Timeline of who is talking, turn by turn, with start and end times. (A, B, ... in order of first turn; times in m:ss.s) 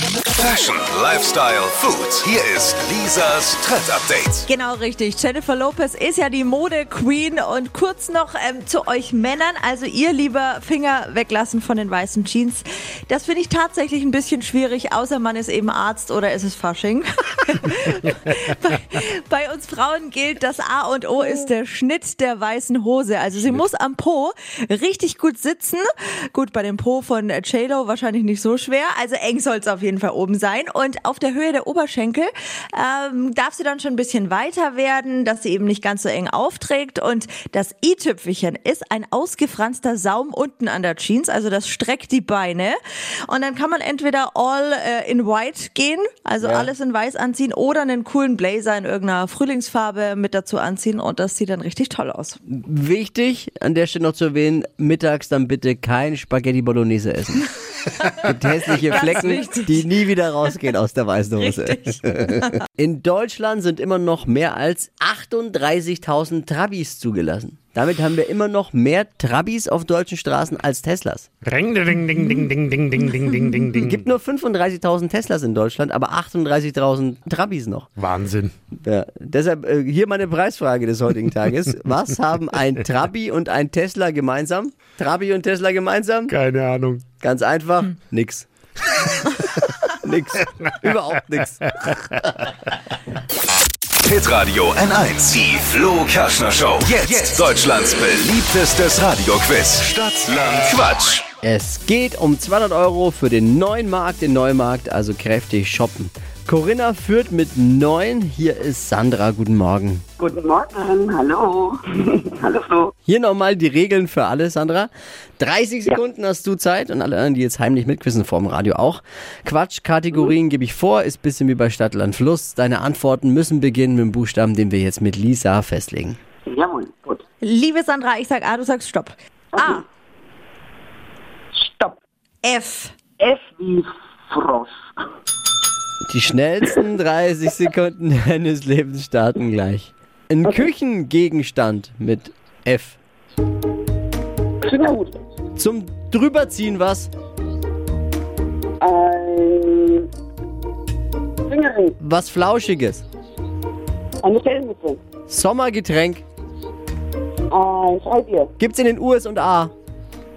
0:00.4-0:04.4 A
0:04.5-0:52.4 B
0:46.4-0:46.7 C
0:52.5-0:57.5 C
0:58.2-1:11.3 C
0:58.8-0:59.9 B
1:01.4-1:02.6 B
1:11.4-1:14.0 D
1:13.8-1:17.9 C
1:18.0-1:18.5 D
1:18.8-1:26.4 C
1:26.3-1:27.0 D
1:27.2-1:28.5 C
1:29.6-1:32.4 C
1:31.8-1:32.2 D
1:34.0-1:41.2 A
1:41.4-1:50.0 C
1:50.2-1:52.9 E
1:53.1-2:06.2 C
2:06.5-2:07.2 E
2:07.4-2:09.8 B
2:09.6-2:09.8 E
2:11.6-2:12.0 E
2:12.4-2:13.0 B
2:13.2-2:14.7 E
2:16.1-2:23.0 C
2:20.4-2:20.7 E
2:24.6-2:25.2 E
2:25.6-2:27.1 C
2:28.8-2:30.1 E
2:31.5-2:32.0 E
2:32.0-2:33.0 C
2:34.2-2:35.0 E
2:35.3-2:36.2 C
2:37.5-2:38.5 E
2:38.6-2:39.7 C